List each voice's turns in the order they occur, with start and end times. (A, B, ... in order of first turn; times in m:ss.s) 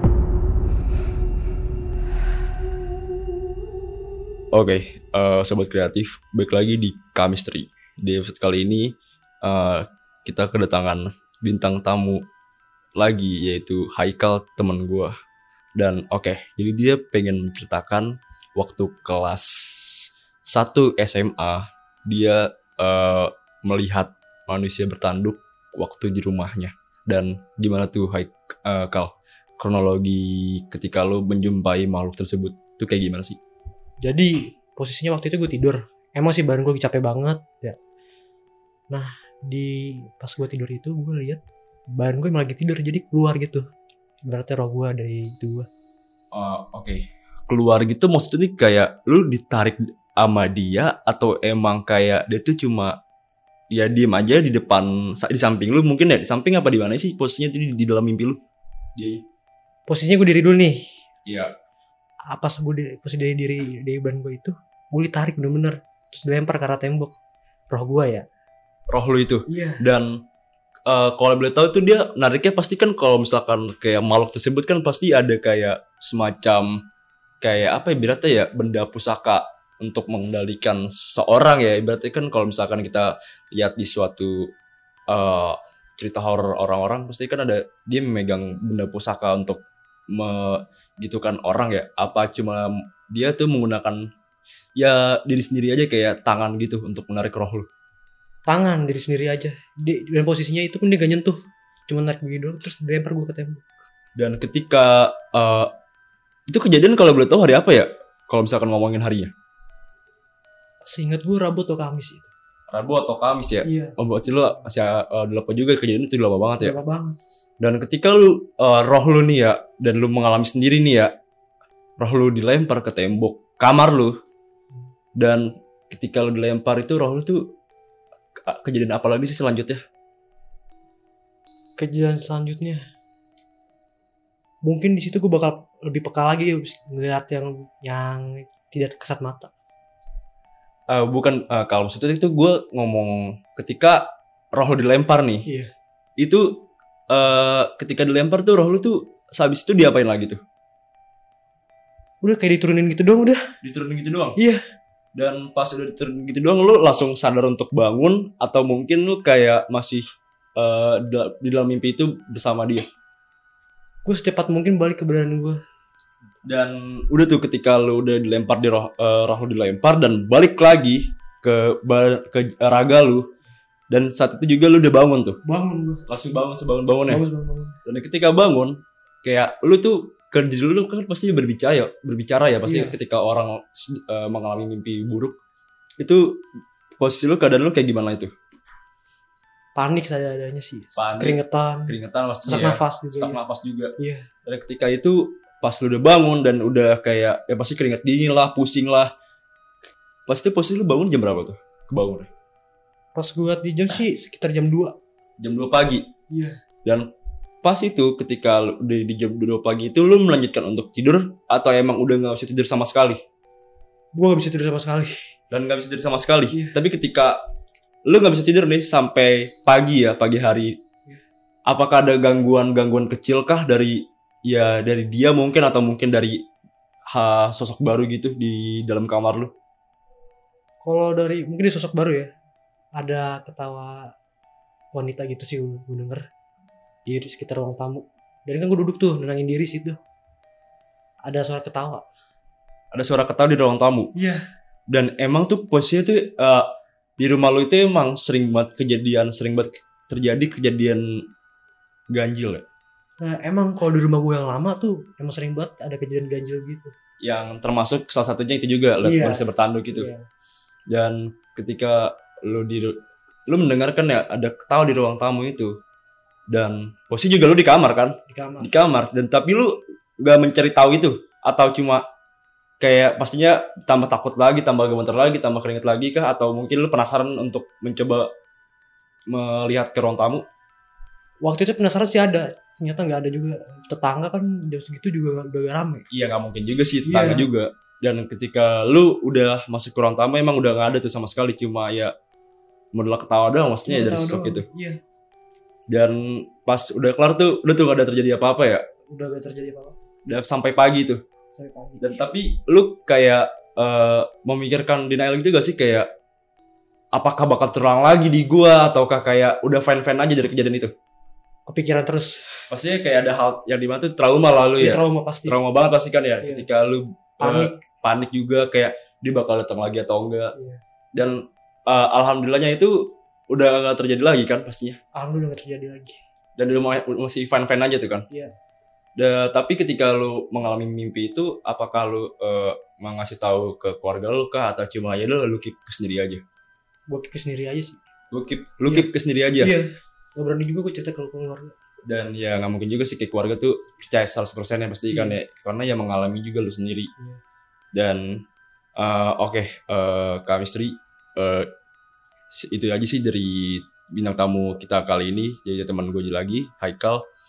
0:04.5-0:08.9 A
0:09.4-0:12.2 A
0:13.0-0:15.1 A
0:15.8-0:33.4 A
0:34.0-0:37.8 B
0:38.9-0:41.4 B
0:42.0-0:43.6 B
0:44.2-0:45.7 B
0:46.3-0:52.9 A
0:53.7-0:58.4 A
0:59.0-0:59.2 A
0:59.9-1:00.8 B
1:02.3-1:07.2 B
1:07.7-1:08.2 B
1:08.9-1:10.1 A
1:09.5-1:09.9 B
1:10.9-1:16.8 A
1:17.4-1:24.5 A
1:25.1-1:34.0 A
1:34.8-1:37.7 A
1:38.4-1:41.4 B
1:41.9-1:43.6 B
1:44.2-1:45.7 A
1:46.5-1:49.3 A
1:50.8-1:52.3 B
1:52.7-1:56.8 A
1:53.6-1:53.9 B
1:56.6-1:57.2 B
1:57.6-2:01.1 A
2:02.0-2:04.1 A
2:05.2-2:07.4 A
2:08.5-2:09.8 A
2:11.8-2:12.8 B
2:14.6-2:19.5 B
2:20.9-2:25.5 A
2:26.2-2:26.4 A
2:27.1-2:30.4 A
2:32.2-2:33.4 B
2:33.6-2:34.4 A
2:35.1-2:40.0 A
2:40.6-2:42.8 A
2:44.0-2:45.6 B
2:46.4-2:53.2 A
2:53.9-2:55.4 A
2:55.4-2:56.1 B
2:56.1-2:57.2 A
2:57.1-2:57.8 B
2:57.8-3:05.4 A
3:02.6-3:03.0 B
3:06.0-3:06.4 A
3:07.0-3:08.3 A
3:09.7-3:13.4 B
3:11.0-3:19.1 A
3:14.0-3:14.2 B
3:20.3-3:22.3 A
3:23.1-3:24.9 B
3:25.4-3:26.1 A
3:26.3-3:26.6 B
3:27.6-3:33.2 A
3:34.1-3:35.2 B
3:35.5-3:37.4 A
3:36.5-3:36.8 B
3:38.0-3:40.8 A
3:41.7-3:46.4 A
3:47.1-3:49.5 A
3:50.8-3:52.3 B
3:53.0-3:54.1 B
3:54.9-3:56.2 B
3:57.0-4:00.0 B
4:01.2-4:02.0 B
4:02.9-4:04.1 A
4:04.9-4:06.7 A
4:07.2-4:11.0 A
4:12.1-4:12.6 A
4:13.2-4:16.9 B
4:17.2-4:20.1 A
4:19.0-4:20.2 B
4:20.9-4:23.0 A
4:23.5-4:25.7 A
4:26.5-4:32.0 A
4:28.3-4:28.7 B
4:32.8-4:38.3 A
4:39.3-4:40.4 A
4:41.4-4:46.0 B
4:46.1-4:52.1 A
4:47.0-4:47.5 B
4:52.9-4:54.7 A
4:53.8-4:55.0 B
4:55.9-4:58.8 A
4:59.1-5:00.0 B
5:00.2-5:01.2 A
5:01.5-5:02.2 B
5:02.0-5:06.1 A
5:07.1-5:10.9 A
5:11.6-5:12.4 B
5:12.7-5:20.5 A
5:14.8-5:15.6 B
5:16.4-5:16.7 B
5:17.4-5:17.8 B
5:20.5-5:20.8 B
5:21.1-5:25.0 A
5:25.1-5:26.2 B
5:26.6-5:28.2 A
5:29.2-5:36.4 A
5:37.1-5:38.0 B
5:38.3-5:39.7 A
5:39.6-5:41.8 B
5:42.0-5:47.1 A
5:45.1-5:45.4 B
5:47.9-5:48.4 A
5:49.0-5:51.7 A
5:52.5-5:57.2 A